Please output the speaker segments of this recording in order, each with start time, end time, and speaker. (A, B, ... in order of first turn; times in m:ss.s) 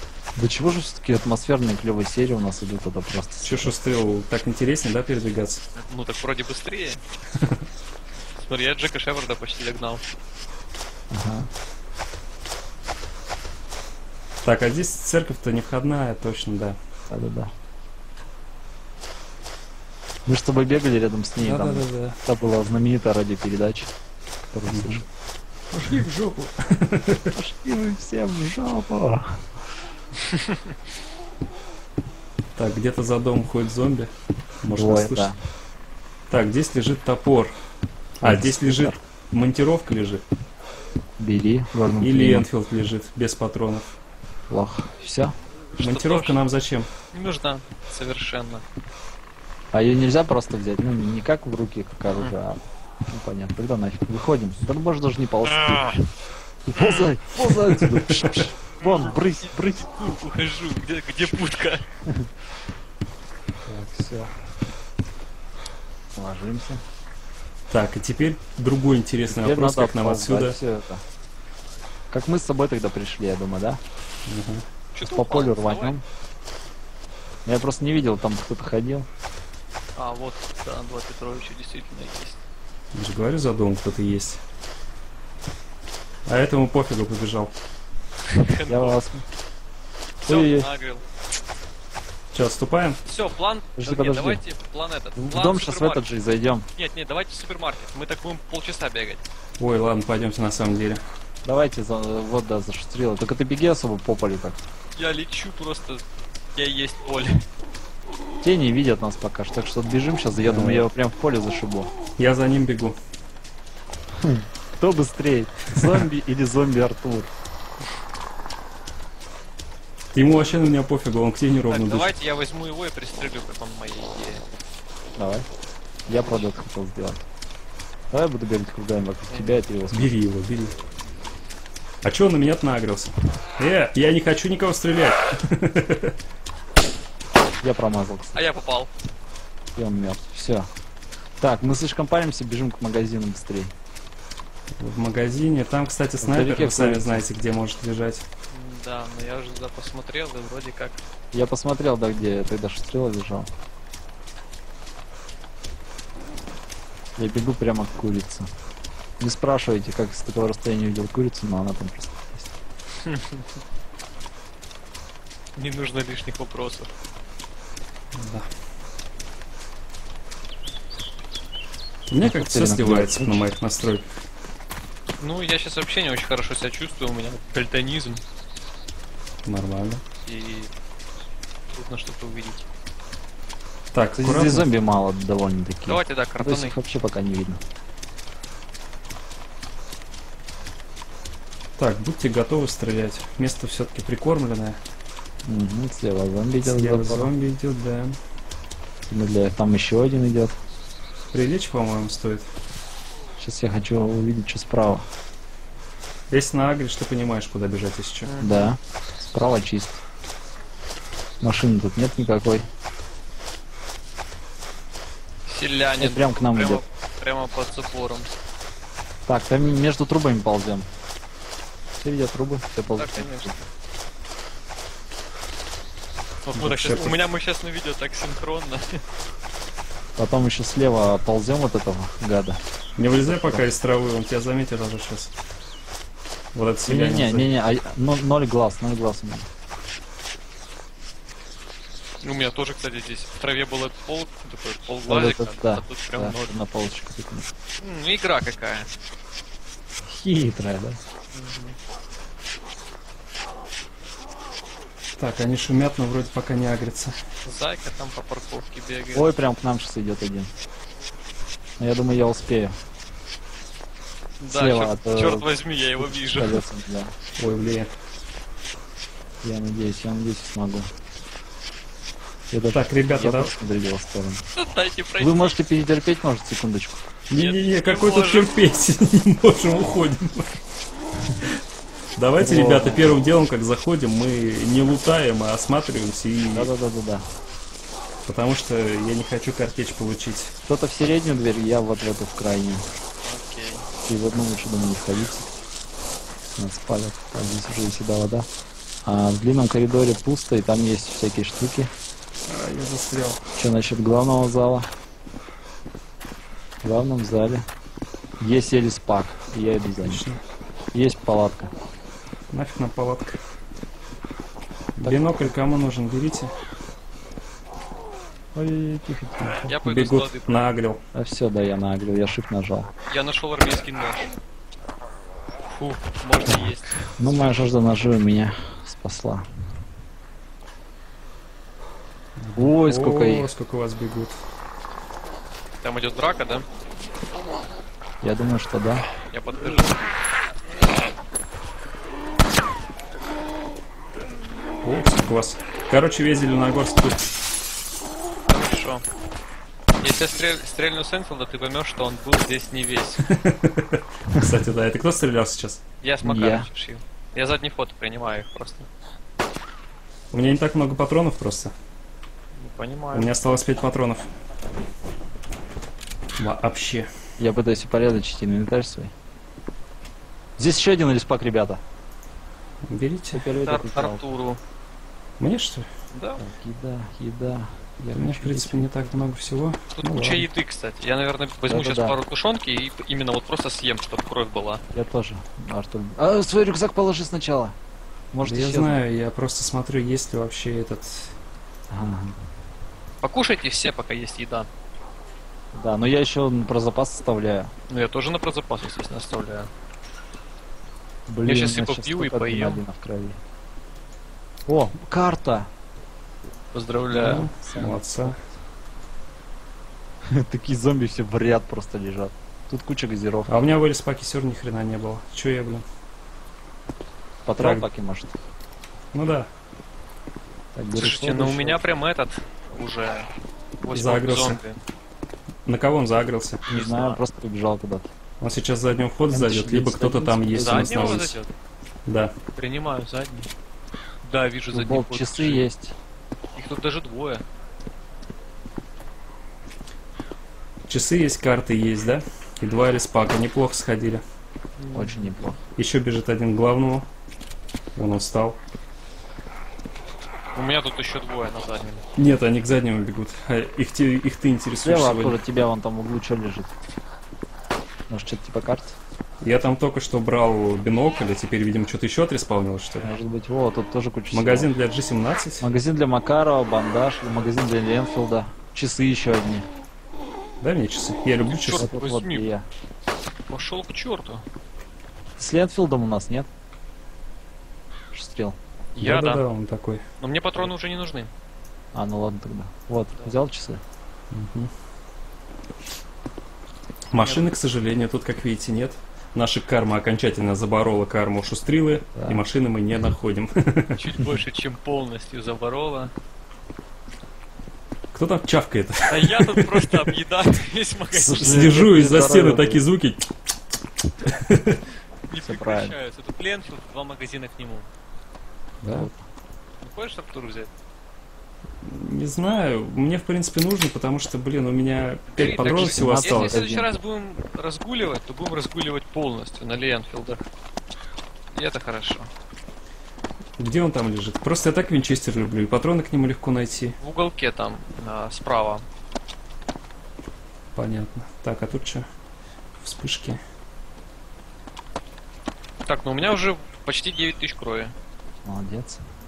0:00.4-0:03.7 A
0:03.4-0:05.6 B
0:05.7-0:07.0 C
0:07.3-0:07.6 B
0:08.4-0:10.0 C
0:11.1-0:11.5 A
0:14.4-0:16.8 B
0:17.1-0:17.5 A
0:20.2-0:23.9 A
0:21.4-0:22.2 B
0:24.5-0:25.0 A
0:24.7-0:25.0 B
0:25.8-0:27.3 B
0:27.3-0:29.5 A
0:30.3-0:30.6 C
0:32.6-0:34.1 B
0:34.6-0:35.3 B
0:34.7-0:35.4 A
0:36.3-0:37.5 B
0:38.2-0:40.2 B
0:38.2-0:39.0 A
0:41.2-0:42.4 A
0:42.0-0:44.0 B
0:44.5-0:45.3 A
0:45.8-0:46.4 C
0:45.8-0:46.9 B
0:47.1-0:48.6 C
0:49.7-0:55.9 A
0:55.4-0:56.0 C
0:56.7-0:59.9 A
0:56.7-0:57.1 C
0:57.7-0:58.5 B
0:58.8-1:01.8 C
1:03.6-1:04.3 A
1:06.2-1:06.8 A
1:07.7-1:10.6 B
1:09.3-1:11.0 A
1:12.1-1:13.8 A
1:14.3-1:14.6 B
1:14.9-1:16.0 C
1:15.0-1:16.0 A
1:17.4-1:19.1 A
1:20.0-1:22.4 C
1:22.9-1:24.4 B
1:26.2-1:27.5 B
1:28.3-1:29.0 C
1:28.7-1:29.2 A
1:30.2-1:31.0 C
1:30.2-1:30.7 A
1:32.3-1:33.0 B
1:33.0-1:36.0 C
1:33.8-1:34.4 A
1:35.2-1:36.6 A
1:36.7-1:39.2 C
1:39.6-1:41.0 B
1:41.4-1:44.6 A
1:45.0-1:46.0 C
1:46.5-1:47.4 C
1:48.4-1:51.9 A
1:50.3-1:50.9 B
1:52.2-1:53.0 B
1:54.2-1:57.3 A
1:55.8-1:56.1 B
2:00.1-2:02.1 B
2:01.7-2:04.4 C
2:05.2-2:05.4 A
2:06.1-2:07.2 A
2:08.1-2:10.1 A
2:09.3-2:09.6 C
2:09.9-2:10.7 B
2:12.0-2:16.2 B
2:17.6-2:18.4 A
2:18.3-2:18.9 C
2:19.8-2:20.7 A
2:21.4-2:23.7 A
2:24.7-2:28.2 B
2:26.2-2:27.2 A
2:28.5-2:31.0 C
2:31.3-2:33.5 A
2:37.2-2:38.5 A
2:39.2-2:42.5 A
2:43.0-2:43.5 C
2:45.6-2:46.9 C
2:48.1-2:48.5 B
2:52.1-2:54.2 B
2:52.2-2:53.4 A
2:55.2-2:58.2 C
2:59.4-3:00.0 B
3:00.2-3:00.7 C
3:01.7-3:02.6 C
3:03.9-3:04.7 B
3:04.2-3:07.6 A
3:05.8-3:06.8 C
3:11.8-3:14.8 B
3:15.4-3:17.3 A
3:16.6-3:18.2 B
3:19.1-3:20.6 A
3:21.3-3:22.5 B
3:23.4-3:25.0 A
3:26.3-3:28.3 B
3:28.2-3:28.7 C
3:28.4-3:28.8 A
3:29.3-3:30.0 A
3:31.4-3:32.7 A
3:35.4-3:38.3 C
3:36.0-3:36.8 A
3:39.2-3:40.9 A
3:42.0-3:43.5 A
3:43.0-3:43.6 C
3:46.4-3:49.0 C
3:46.5-3:47.2 B
3:50.2-3:52.6 A
3:53.0-3:55.3 B
3:53.2-3:53.6 A
3:56.5-3:57.5 B
3:56.9-3:59.5 A
4:02.2-4:06.5 C
4:05.1-4:07.5 A
4:07.8-4:08.9 C
4:10.0-4:11.0 A
4:11.3-4:11.8 C
4:15.2-4:17.2 B
4:17.4-4:19.3 C
4:19.1-4:20.5 A
4:21.8-4:22.8 A
4:24.4-4:26.6 C
4:24.5-4:25.4 A
4:26.0-4:27.1 A
4:27.4-4:27.9 B
4:29.4-4:30.9 A
4:32.5-4:34.4 A
4:32.7-4:33.5 B
4:34.5-4:35.6 C
4:35.2-4:37.0 A
4:37.3-4:40.6 B
4:37.3-4:38.5 C
4:42.2-4:46.7 B
4:42.4-4:43.2 A
4:46.5-4:47.2 A
4:48.2-4:50.5 B
4:50.7-4:52.8 A
4:53.2-4:53.9 C
4:54.0-4:55.5 A
4:56.6-4:58.5 A
4:59.0-5:01.9 A
5:02.4-5:03.4 B
5:03.6-5:04.9 A
5:06.8-5:07.6 A
5:08.4-5:10.2 A
5:10.0-5:10.4 B
5:10.9-5:11.7 A
5:12.5-5:13.4 B
5:15.0-5:16.5 B
5:15.0-5:15.5 A
5:18.5-5:19.7 A
5:19.6-5:20.7 C
5:19.8-5:21.0 B
5:21.1-5:22.9 A
5:23.1-5:24.3 C
5:25.6-5:27.7 C
5:26.5-5:29.4 A
5:32.4-5:34.4 B
5:32.6-5:33.5 A
5:35.8-5:36.6 C
5:38.2-5:39.0 A
5:39.3-5:40.0 C
5:44.8-5:47.2 B
5:48.5-5:49.0 C
5:50.0-5:53.2 C
5:53.2-5:55.8 B
5:54.3-5:54.6 A
5:56.0-5:58.9 C
5:56.2-5:56.7 A
6:00.3-6:01.7 B
6:02.5-6:03.3 C
6:03.1-6:04.3 B
6:06.4-6:07.1 B
6:07.4-6:09.1 A
6:10.6-6:11.8 A
6:12.9-6:13.4 B
6:13.3-6:14.2 A
6:13.5-6:14.6 C
6:15.4-6:15.9 B
6:16.1-6:16.4 C
6:16.4-6:19.1 A
6:18.1-6:20.5 B
6:20.0-6:24.8 C
6:21.7-6:22.2 A
6:24.9-6:27.7 A
6:28.3-6:29.0 A
6:28.4-6:31.4 B
6:31.9-6:32.4 A
6:33.2-6:34.7 C
6:35.7-6:37.7 A
6:37.9-6:39.7 C
6:41.3-6:43.4 A
6:41.4-6:42.8 C
6:44.7-6:45.7 A
6:46.7-6:47.5 C
6:47.1-6:48.4 B
6:47.5-6:48.5 A
6:50.2-6:53.5 A
6:53.5-6:55.8 B
6:57.4-6:58.3 A
6:57.6-6:57.8 B
6:59.1-6:59.5 B
7:00.7-7:01.8 A
7:00.9-7:03.3 C
7:03.8-7:04.8 C
7:03.9-7:04.6 B
7:05.6-7:06.6 B
7:06.7-7:08.1 A
7:06.7-7:07.2 C
7:08.4-7:11.4 B
7:09.3-7:11.2 A
7:10.5-7:11.5 C
7:12.0-7:12.3 B
7:12.5-7:13.5 C
7:14.2-7:15.7 C
7:14.7-7:15.9 A
7:16.6-7:17.4 C
7:20.9-7:24.2 B
7:24.8-7:25.5 C
7:24.9-7:25.6 A
7:25.8-7:27.1 B
7:28.0-7:28.6 B
7:30.5-7:32.0 C
7:32.2-7:35.4 B
7:34.8-7:36.7 A
7:38.1-7:39.0 A
7:39.4-7:43.1 B
7:43.0-7:44.7 A
7:44.3-7:45.7 B
7:45.6-7:49.6 A
7:50.6-7:51.8 B
7:51.5-7:52.5 C
7:51.8-7:52.6 A
7:53.5-7:54.4 C
7:55.4-7:56.5 A
7:58.1-7:58.6 A
7:58.9-7:59.4 C
7:59.0-8:00.0 B
8:00.2-8:01.3 C
8:01.9-8:03.8 A
8:04.3-8:04.7 B
8:07.1-8:14.0 B
8:07.2-8:07.4 C
8:12.1-8:12.4 A
8:14.0-8:16.1 C
8:18.1-8:20.2 B
8:19.1-8:21.7 C
8:21.1-8:22.8 A
8:21.4-8:23.3 B
8:24.2-8:24.8 B
8:25.3-8:27.9 C
8:25.4-8:25.9 A
8:28.8-8:29.1 B
8:28.8-8:29.2 A
8:29.8-8:30.7 C
8:31.8-8:36.6 B
8:35.3-8:40.4 C
8:35.7-8:36.9 A
8:41.5-8:42.3 C
8:43.6-8:47.0 B
8:47.0-8:48.8 C
8:50.7-8:52.0 B
8:52.8-8:53.4 B
8:55.8-8:57.9 C
8:58.4-8:59.0 A